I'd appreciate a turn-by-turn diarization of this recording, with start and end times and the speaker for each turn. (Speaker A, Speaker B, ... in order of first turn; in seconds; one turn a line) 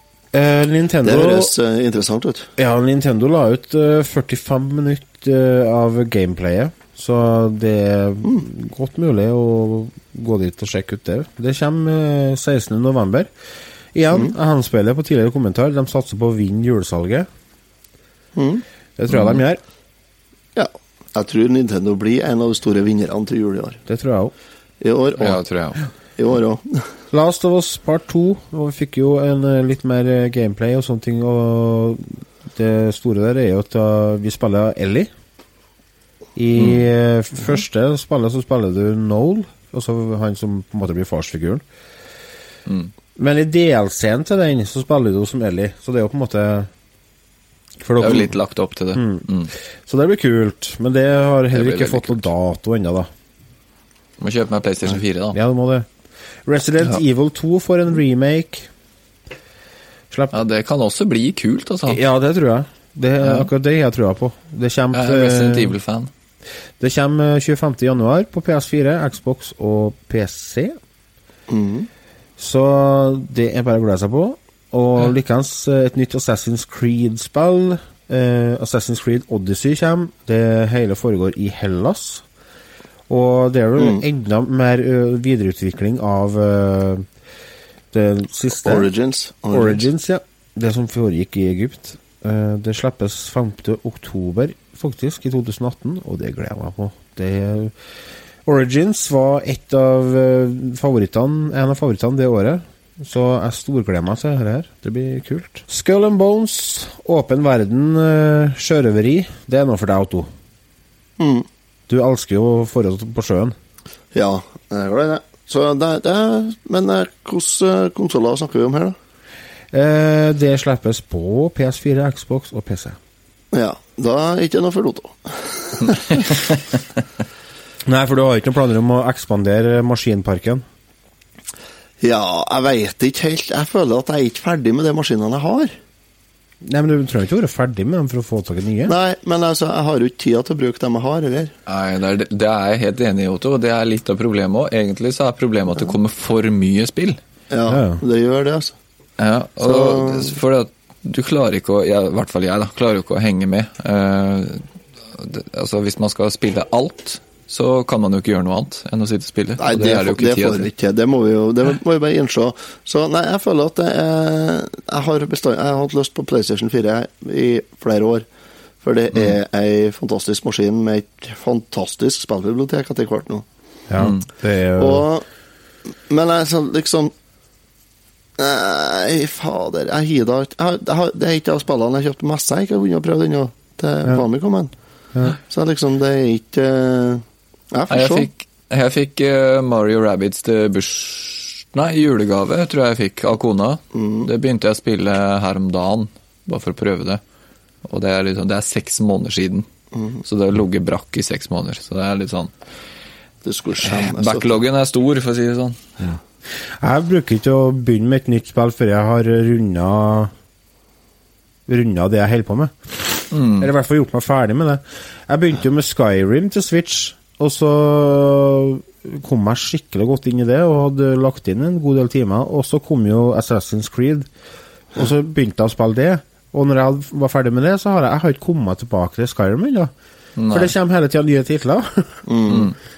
Speaker A: 0.3-1.5
Speaker B: 1.0-2.5
Speaker A: 2.6-13.3
Speaker A: 13.9-17.3
Speaker B: 18.4-18.6
Speaker A: 19.0-19.6
Speaker C: 19.1-19.4
Speaker B: 20.6-23.8
Speaker A: 23.9-24.3
Speaker B: 24.8-25.4
Speaker C: 25.2-25.8
Speaker B: 26.2-26.9
Speaker A: 27.1-35.1
Speaker A: 36.4-41.6
Speaker C: 36.6-36.8
Speaker C: 42.7-42.9
Speaker A: 43.2-46.7
Speaker A: 47.8-48.3
Speaker C: 48.0-49.5
Speaker A: 48.9-49.3
Speaker A: 49.9-53.1
Speaker C: 51.5-52.3
Speaker C: 54.2-55.4
Speaker A: 54.9-55.9
Speaker A: 56.5-58.7
Speaker A: 60.1-60.4
Speaker C: 60.3-62.0
Speaker A: 61.9-65.8
Speaker C: 63.2-63.5
Speaker C: 64.9-66.1
Speaker A: 66.8-70.8
Speaker B: 71.5-71.9
Speaker A: 72.4-82.2
Speaker A: 83.1-87.1
Speaker B: 83.8-84.0
Speaker A: 87.9-88.9
Speaker B: 88.7-89.9
Speaker A: 89.5-97.7
Speaker A: 98.5-110.3
Speaker B: 111.2-111.5
Speaker A: 111.9-113.6
Speaker B: 114.1-119.0
Speaker A: 119.7-123.0
Speaker B: 123.5-126.3
Speaker A: 127.8-130.7
Speaker B: 132.0-135.7
Speaker A: 136.6-138.9
Speaker B: 138.9-141.5
Speaker C: 141.7-147.2
Speaker B: 147.5-148.8
Speaker A: 147.7-148.0
Speaker C: 149.2-160.7
Speaker B: 149.6-150.4
Speaker B: 159.6-168.2
Speaker B: 168.8-173.4
Speaker A: 173.9-175.1
Speaker B: 174.8-175.2
Speaker B: 176.1-177.1
Speaker B: 178.4-184.7
Speaker B: 185.5-188.3
Speaker C: 187.9-197.2
Speaker B: 193.9-194.3
Speaker C: 197.9-199.7
Speaker B: 199.9-200.2
Speaker C: 200.2-202.5
Speaker B: 203.4-204.6
Speaker C: 203.8-205.8
Speaker A: 206.8-210.3
Speaker A: 211.7-212.7
Speaker C: 213.3-213.7
Speaker A: 213.6-224.3
Speaker A: 224.9-229.9
Speaker C: 230.4-230.7
Speaker A: 230.5-232.2
Speaker B: 232.3-232.7
Speaker C: 232.5-232.7